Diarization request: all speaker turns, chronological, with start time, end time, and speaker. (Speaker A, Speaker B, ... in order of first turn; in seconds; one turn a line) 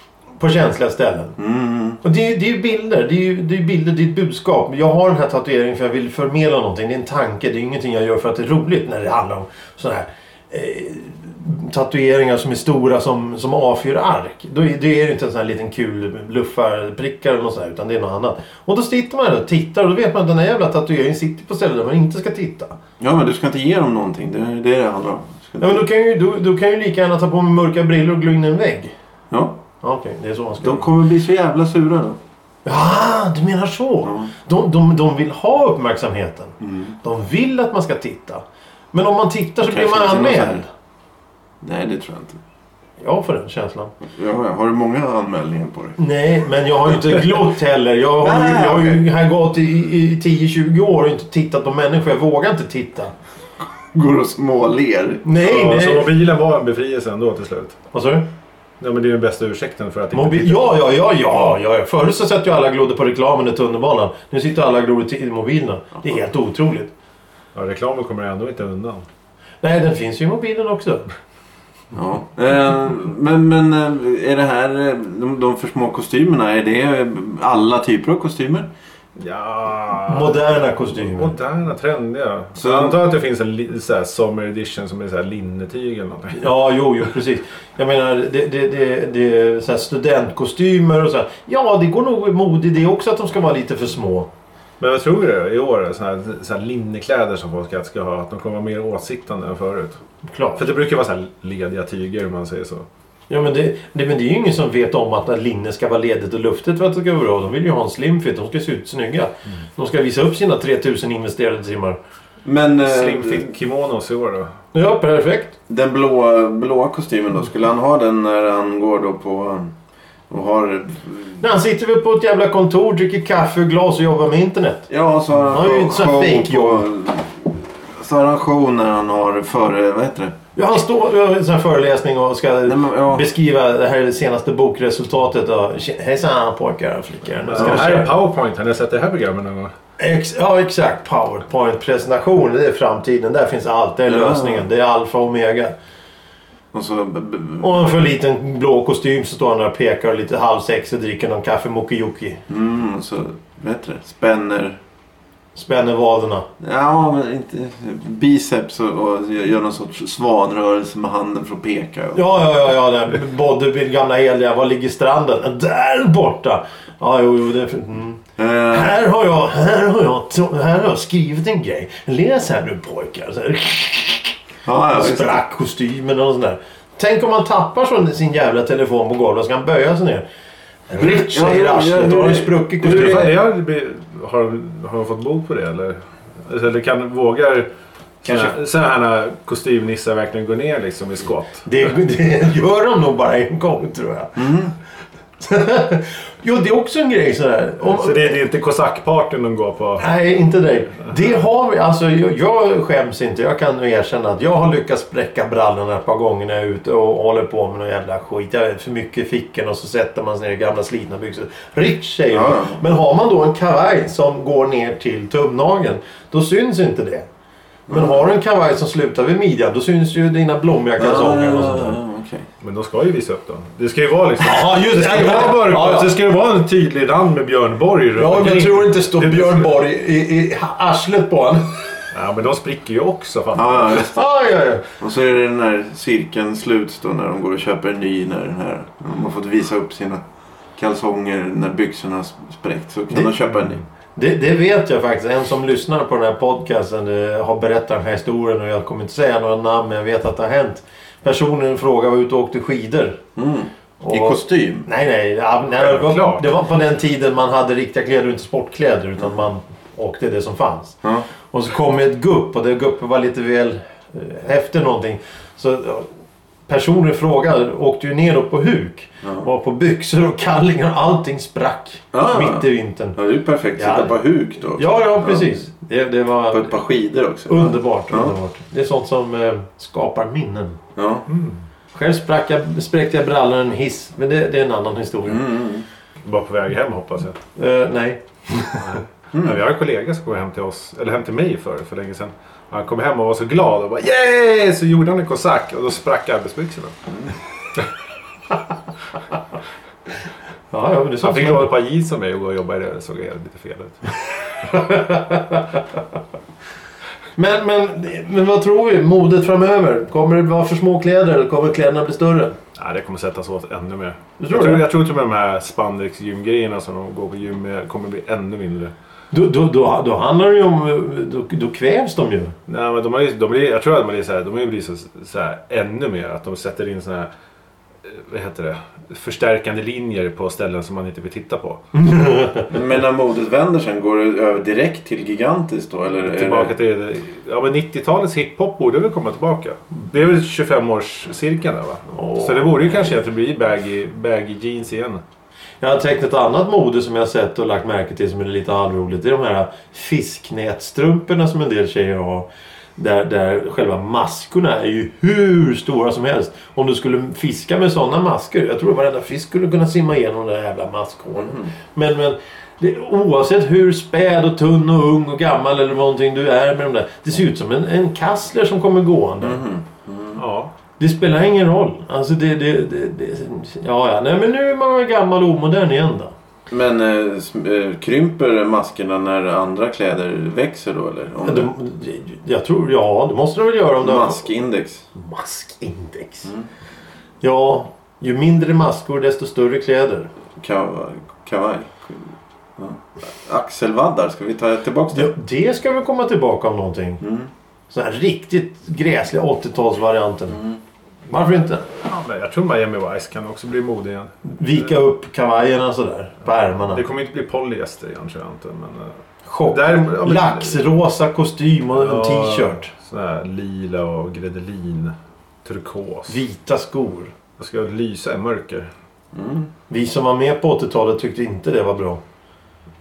Speaker A: 0.4-1.4
Speaker B: 1.4-2.0
Speaker A: 2.0-22.8
Speaker B: 23.0-25.9
Speaker A: 25.6-28.9
Speaker B: 29.3-29.6
Speaker A: 29.8-30.9
Speaker B: 30.6-32.2
Speaker A: 32.6-40.7
Speaker B: 34.0-34.3
Speaker B: 36.6-36.9
Speaker B: 39.6-40.6
Speaker B: 41.6-42.4
Speaker A: 43.0-43.9
Speaker B: 44.1-46.0
Speaker A: 46.0-53.1
Speaker B: 48.2-49.0
Speaker B: 53.9-55.2
Speaker A: 55.2-56.2
Speaker C: 55.4-57.8
Speaker A: 57.9-58.2
Speaker C: 58.8-60.8
Speaker A: 60.1-66.9
Speaker C: 67.5-69.0
Speaker A: 69.6-71.1
Speaker B: 71.9-78.7
Speaker C: 79.2-86.5
Speaker A: 80.1-81.3
Speaker B: 82.6-83.0
Speaker A: 86.3-94.3
Speaker C: 94.8-100.0
Speaker A: 100.2-100.6
Speaker C: 100.5-102.8
Speaker A: 103.3-112.0
Speaker B: 112.4-113.5
Speaker C: 112.8-114.5
Speaker A: 114.7-115.5
Speaker B: 115.7-119.7
Speaker B: 120.3-121.4
Speaker A: 121.4-124.9
Speaker B: 124.9-130.3
Speaker A: 125.5-126.9
Speaker A: 130.6-138.1
Speaker B: 132.7-133.3
Speaker C: 137.4-139.7
Speaker A: 140.0-145.7
Speaker B: 144.1-144.7
Speaker B: 146.7-147.7
Speaker A: 147.6-152.4
Speaker B: 152.5-154.8
Speaker A: 155.5-156.5
Speaker B: 156.6-162.2
Speaker A: 162.1-174.3
Speaker B: 168.4-168.9
Speaker B: 174.6-175.4
Speaker A: 174.9-180.2
Speaker A: 180.9-183.3
Speaker B: 181.0-183.3
Speaker C: 182.8-187.7
Speaker C: 188.2-191.9
Speaker A: 191.7-194.6
Speaker B: 194.4-194.7
Speaker A: 195.4-198.3
Speaker C: 197.8-200.1
Speaker A: 200.0-217.3
Speaker B: 212.3-212.8
Speaker B: 217.9-218.2
Speaker A: 217.9-222.0
Speaker B: 221.0-222.5
Speaker C: 222.6-229.7
Speaker A: 224.4-226.1
Speaker A: 228.2-231.8
Speaker C: 232.1-234.1
Speaker B: 233.5-234.1
Speaker A: 234.0-234.9
Speaker B: 235.0-240.2
Speaker B: 240.8-243.8
Speaker A: 244.2-253.2
Speaker B: 253.3-254.9
Speaker A: 254.0-261.0
Speaker C: 255.8-256.5
Speaker A: 261.5-266.1
Speaker A: 266.7-273.2
Speaker B: 272.1-275.5
Speaker A: 273.8-274.2
Speaker A: 274.7-276.8
Speaker B: 276.5-278.3
Speaker A: 277.5-280.8
Speaker B: 280.9-281.3
Speaker C: 281.3-281.6
Speaker A: 281.9-285.5
Speaker B: 285.3-285.9
Speaker C: 286.2-287.4
Speaker A: 287.6-289.0
Speaker C: 288.8-297.1
Speaker B: 289.3-289.6
Speaker A: 300.7-301.7
Speaker C: 301.2-304.1
Speaker A: 304.6-305.8
Speaker A: 307.4-312.6
Speaker C: 312.8-318.9
Speaker A: 314.4-314.9
Speaker A: 319.3-322.6
Speaker C: 322.7-327.3
Speaker C: 328.0-331.8
Speaker A: 331.9-332.7
Speaker B: 332.7-336.7
Speaker C: 336.2-345.2
Speaker A: 342.1-343.1
Speaker A: 345.8-369.6
Speaker B: 361.4-361.7
Speaker B: 369.4-370.4
Speaker C: 370.4-370.7
Speaker A: 371.0-376.3
Speaker B: 376.7-381.7
Speaker A: 381.4-384.5
Speaker B: 384.0-385.1
Speaker A: 385.1-386.5
Speaker A: 387.4-390.3
Speaker B: 390.6-395.3
Speaker A: 395.1-397.2
Speaker B: 397.2-397.5
Speaker A: 397.9-400.6
Speaker B: 400.5-400.8
Speaker A: 401.3-401.9
Speaker C: 401.9-404.3
Speaker A: 404.4-407.0
Speaker C: 406.9-409.1
Speaker A: 409.4-412.9
Speaker C: 409.7-410.8
Speaker C: 411.9-416.4
Speaker A: 416.3-417.3
Speaker C: 417.6-418.9
Speaker B: 419.3-419.7
Speaker A: 419.9-422.2